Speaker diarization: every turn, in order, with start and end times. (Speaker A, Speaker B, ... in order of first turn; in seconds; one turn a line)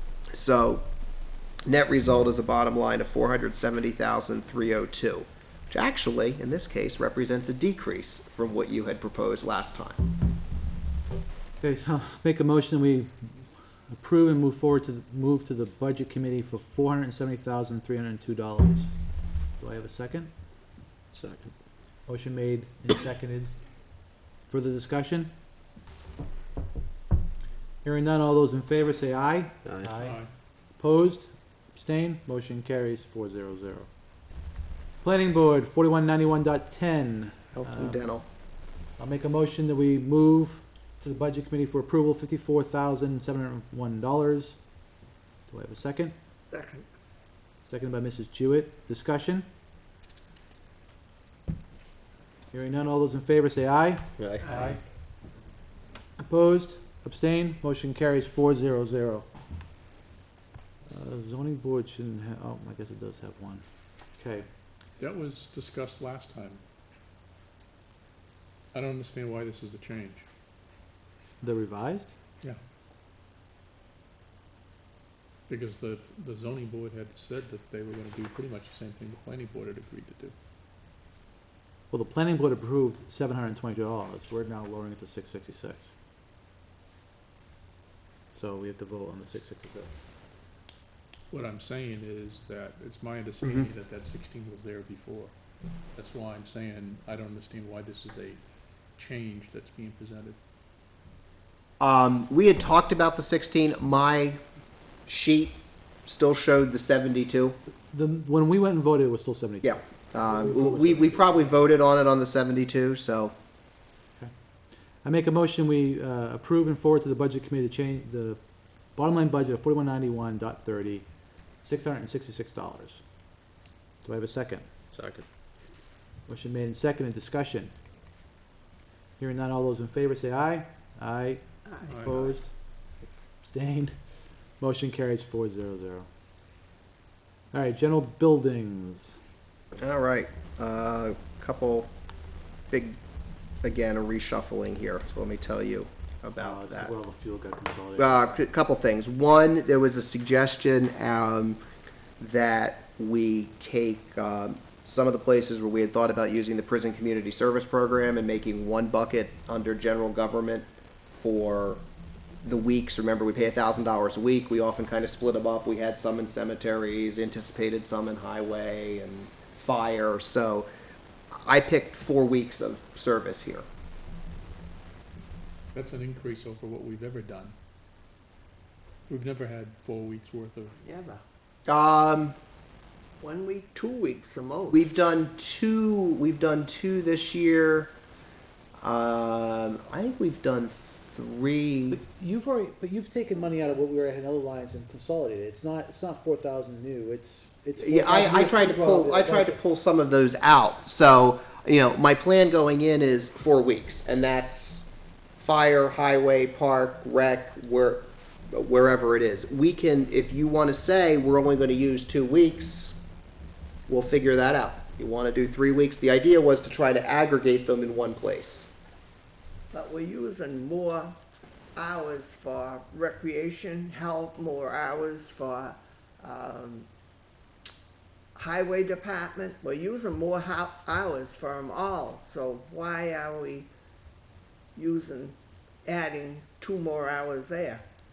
Speaker A: 0.3-0.8
Speaker A: 1.6-10.0
Speaker B: 11.6-18.9
Speaker B: 19.6-20.3
Speaker B: 22.1-23.5
Speaker B: 24.5-25.3
Speaker B: 27.8-30.2
Speaker C: 30.0-30.3
Speaker B: 30.8-33.9
Speaker B: 35.0-38.0
Speaker A: 37.5-38.3
Speaker B: 39.0-44.6
Speaker B: 45.5-46.1
Speaker D: 46.5-46.9
Speaker B: 47.7-49.5
Speaker B: 52.5-54.8
Speaker B: 56.2-59.3
Speaker B: 60.9-63.6
Speaker B: 64.2-64.5
Speaker C: 65.0-66.6
Speaker C: 68.7-70.2
Speaker B: 71.4-72.2
Speaker C: 75.5-80.3
Speaker B: 81.9-85.9
Speaker B: 88.3-90.0
Speaker C: 91.3-95.3
Speaker C: 95.9-98.4
Speaker C: 99.0-100.4
Speaker A: 101.8-104.4
Speaker A: 105.1-107.5
Speaker B: 107.9-111.5
Speaker A: 109.6-113.3
Speaker B: 115.0-118.4
Speaker B: 119.0-121.0
Speaker B: 121.6-123.0
Speaker B: 124.0-124.7
Speaker B: 126.3-127.7
Speaker B: 129.2-132.5
Speaker C: 131.8-132.4
Speaker B: 133.4-133.9
Speaker B: 134.6-136.1
Speaker B: 137.5-139.2
Speaker A: 139.8-141.9
Speaker A: 142.7-143.0
Speaker A: 143.6-146.9
Speaker B: 146.4-148.4
Speaker A: 148.0-151.6
Speaker A: 152.2-161.8
Speaker A: 162.4-170.7
Speaker A: 171.3-173.7
Speaker C: 175.7-177.5
Speaker C: 179.1-180.8
Speaker D: 180.8-181.2
Speaker A: 181.7-182.3
Speaker D: 183.2-184.9
Speaker A: 184.7-187.9
Speaker A: 188.8-192.0
Speaker B: 191.9-199.6
Speaker A: 197.8-212.9
Speaker A: 213.9-218.7
Speaker D: 219.7-221.2
Speaker D: 221.7-226.9
Speaker D: 228.3-233.7
Speaker D: 234.8-237.8